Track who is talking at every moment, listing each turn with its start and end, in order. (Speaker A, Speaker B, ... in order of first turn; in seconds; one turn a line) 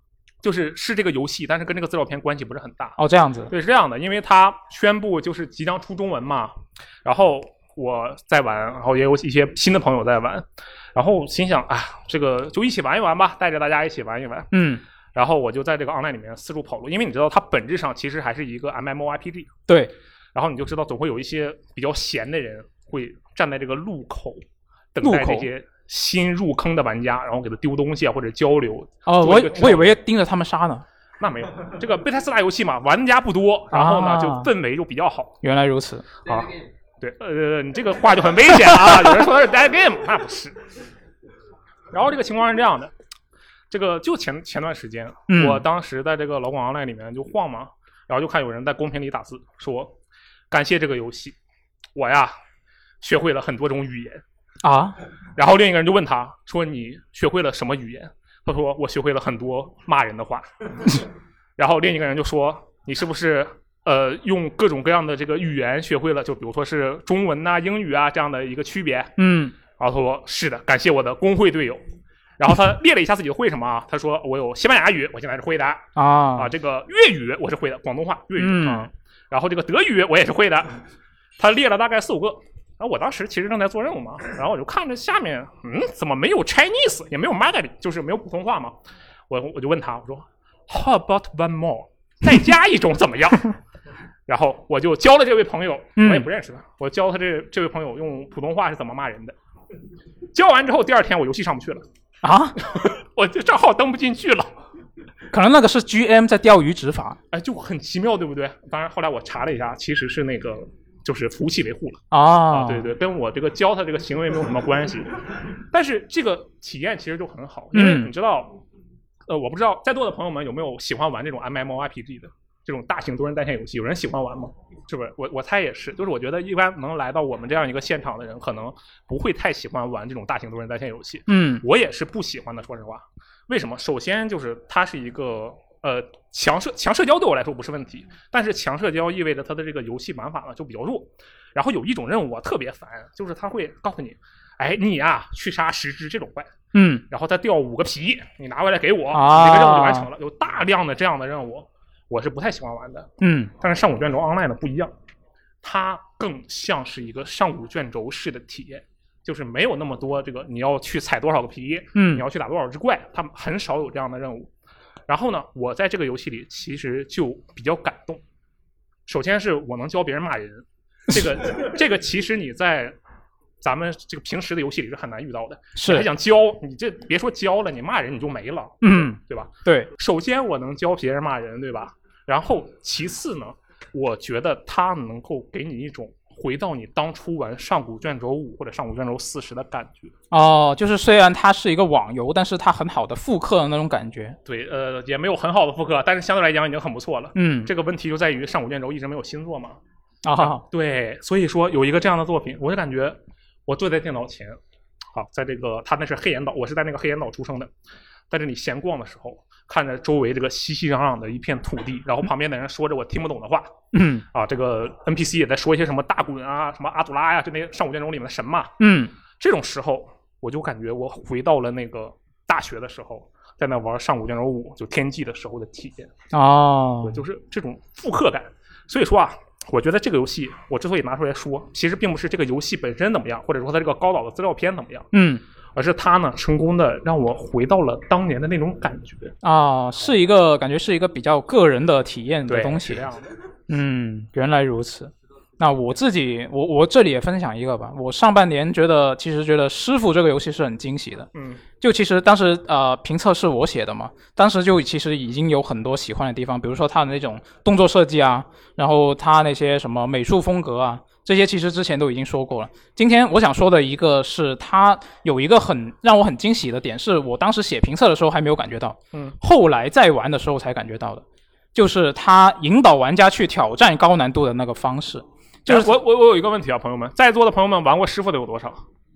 Speaker A: 0.4-3.0
Speaker B: 3.0-3.5
Speaker A: 3.5-10.4
Speaker A: 11.0-14.5
Speaker B: 14.5-14.8
Speaker A: 15.2-19.5
Speaker A: 20.4-24.4
Speaker A: 24.9-30.0
Speaker B: 25.0-25.5
Speaker B: 29.1-30.8
Speaker A: 31.2-35.4
Speaker B: 33.7-34.5
Speaker B: 35.4-36.0
Speaker A: 36.2-40.6
Speaker A: 41.9-42.9
Speaker A: 43.7-49.9
Speaker B: 45.3-45.6
Speaker A: 50.5-51.4
Speaker A: 52.0-52.3
Speaker A: 53.0-54.2
Speaker B: 54.6-55.0
Speaker A: 55.4-61.0
Speaker A: 61.6-69.1
Speaker B: 69.2-69.5
Speaker A: 69.8-71.8
Speaker A: 72.4-80.8
Speaker B: 76.0-76.5
Speaker B: 78.4-78.9
Speaker A: 81.4-88.8
Speaker A: 89.3-93.5
Speaker A: 94.3-99.3
Speaker B: 96.0-96.3
Speaker A: 100.3-101.8
Speaker B: 102.2-102.6
Speaker A: 102.7-104.5
Speaker B: 105.3-107.2
Speaker A: 107.3-115.1
Speaker B: 112.1-112.9
Speaker A: 115.7-118.6
Speaker B: 117.7-118.1
Speaker A: 119.3-146.5
Speaker B: 131.3-131.6
Speaker B: 146.7-147.0
Speaker A: 147.1-154.9
Speaker B: 149.1-150.1
Speaker B: 153.2-153.5
Speaker A: 155.6-164.5
Speaker B: 161.9-162.2
Speaker A: 165.1-168.2
Speaker A: 169.1-172.9
Speaker A: 173.6-190.1
Speaker B: 175.8-176.1
Speaker B: 178.8-179.9
Speaker B: 190.3-194.4
Speaker A: 194.5-199.8
Speaker B: 197.3-197.7
Speaker B: 200.2-200.6
Speaker A: 200.4-204.6
Speaker A: 205.1-207.7
Speaker A: 208.3-213.7
Speaker B: 213.9-214.3
Speaker A: 214.3-218.7
Speaker B: 218.8-219.1
Speaker A: 219.4-226.1
Speaker B: 226.3-227.2
Speaker A: 227.0-235.1
Speaker B: 235.1-235.4
Speaker A: 235.8-239.3
Speaker B: 239.4-243.1
Speaker A: 242.5-243.2
Speaker B: 243.7-251.3
Speaker A: 251.3-251.6
Speaker B: 251.8-271.2
Speaker B: 271.7-275.9
Speaker A: 275.7-278.8